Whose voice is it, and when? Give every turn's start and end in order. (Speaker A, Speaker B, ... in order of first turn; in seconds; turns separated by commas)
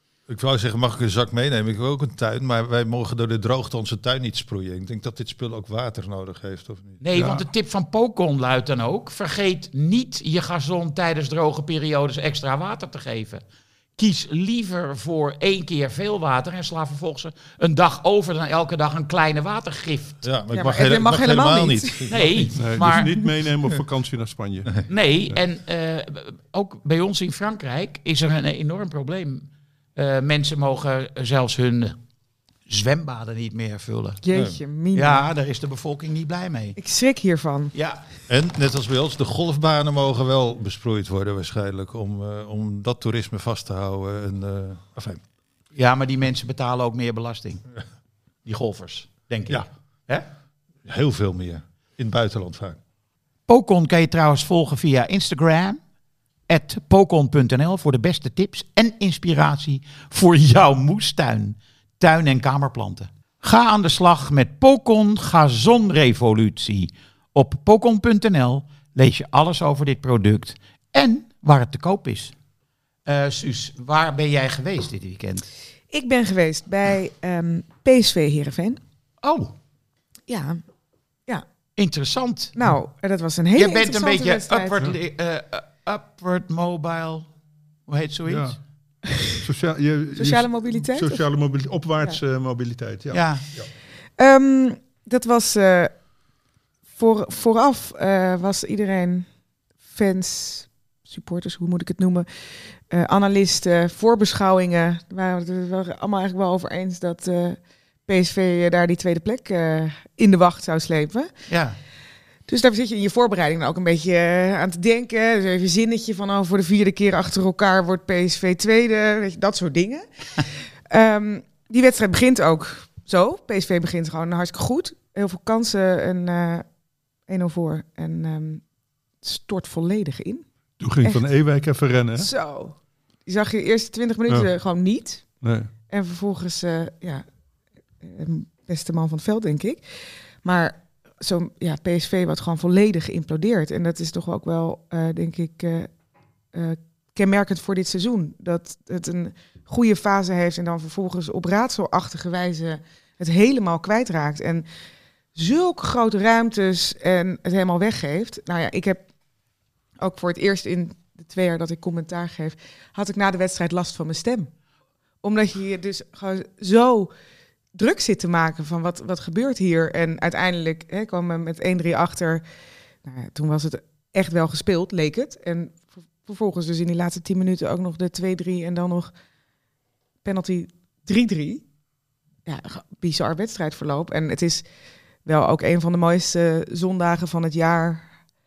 Speaker A: 0.3-7.0, Speaker B: 7.0-13.4, Speaker C: 7.1-7.5, Speaker B: 13.9-20.2, Speaker A: 20.2-22.5, Speaker D: 20.5-22.1, Speaker B: 22.1-23.2, Speaker C: 22.6-25.4, Speaker B: 24.9-32.0, Speaker B: 32.7-34.2, Speaker D: 34.2-35.3, Speaker A: 34.3-34.6, Speaker B: 34.9-36.8, Speaker D: 36.8-37.7, Speaker B: 37.7-38.0, Speaker A: 38.3-45.2, Speaker B: 45.7-47.6, Speaker B: 48.4-50.3, Speaker A: 50.9-52.8, Speaker B: 53.5-55.8, Speaker B: 56.5-72.3, Speaker B: 73.1-75.5, Speaker D: 75.9-78.8, Speaker B: 79.2-79.5, Speaker D: 80.3-80.6, Speaker B: 81.8-82.5, Speaker D: 82.5-84.8, Speaker B: 83.5-87.3, Speaker B: 87.9-88.6, Speaker C: 88.2-88.6, Speaker C: 89.2-93.7, Speaker D: 90.2-91.2, Speaker B: 93.1-93.4, Speaker D: 94.2-96.0, Speaker D: 96.9-99.3, Speaker D: 99.9-111.3, Speaker B: 111.5-111.8, Speaker D: 112.5-126.7, Speaker D: 127.2-128.6, Speaker D: 129.2-130.4, Speaker C: 130.8-132.3, Speaker D: 132.2-137.2, Speaker C: 135.4-135.7, Speaker D: 138.0-145.9, Speaker D: 146.5-154.6, Speaker D: 155.3-159.1, Speaker D: 160.0-164.5, Speaker D: 165.2-167.1, Speaker D: 167.7-172.4, Speaker D: 173.0-179.1, Speaker D: 180.2-181.6, Speaker D: 182.4-184.7, Speaker D: 185.2-188.1